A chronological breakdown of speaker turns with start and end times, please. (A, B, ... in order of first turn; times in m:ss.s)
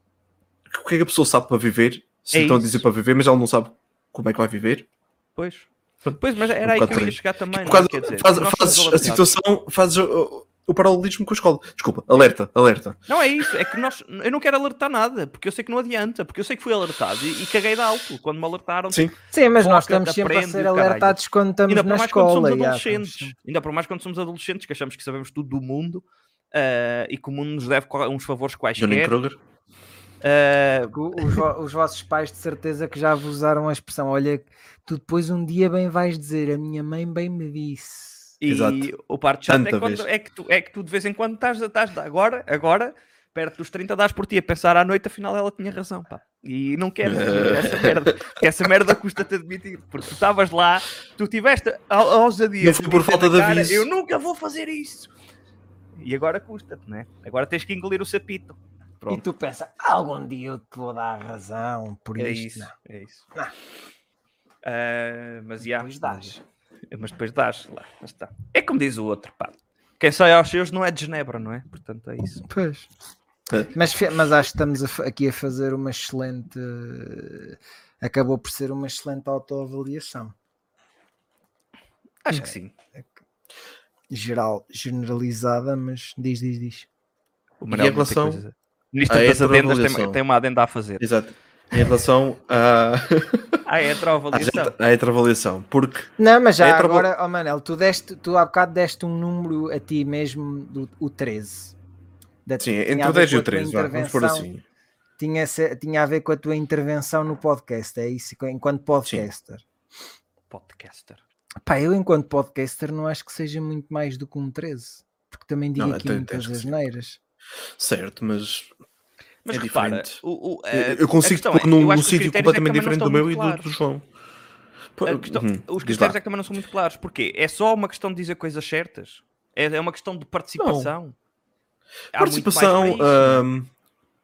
0:00.7-0:04.9 A
0:02.3-0:02.8 B
0:05.4-0:09.3 B
0:06.1-0:13.0 A
0:13.1-0:29.2 B
0:19.3-0:23.4 C
0:28.8-0:29.4 A
0:30.2-0:31.4 B
0:30.9-0:38.4 C
0:38.4-0:55.1 B
0:38.5-0:38.9 A
0:39.5-0:40.1 A
0:47.0-0:48.1 A
0:52.6-0:53.9 A
0:56.0-0:59.2 B
0:59.1-1:02.7 C
1:02.2-1:03.2 B
1:04.6-1:06.4 B
1:05.6-1:06.4 C
1:06.9-1:12.4 B
1:12.4-1:12.9 C
1:13.7-1:20.4 C
1:22.2-1:22.7 B
1:22.3-1:23.1 C
1:24.1-1:26.9 C
1:27.6-1:31.0 B
1:27.7-1:28.4 A
1:29.1-1:30.2 A
1:31.0-1:33.6 A
1:33.7-1:34.8 B
1:34.3-1:37.1 A
1:36.2-1:41.8 C
1:42.5-1:44.5 C
1:42.6-1:44.6 A
1:45.2-1:49.6 C
1:50.5-1:51.2 B
1:51.6-1:57.2 C
1:55.8-1:56.7 A
1:57.8-1:58.7 A
1:59.4-2:03.7 B
1:59.5-2:04.1 A
2:05.0-2:06.2 A
2:05.0-2:11.2 B
2:10.6-2:10.9 A
2:12.1-2:13.4 B
2:12.1-2:13.7 A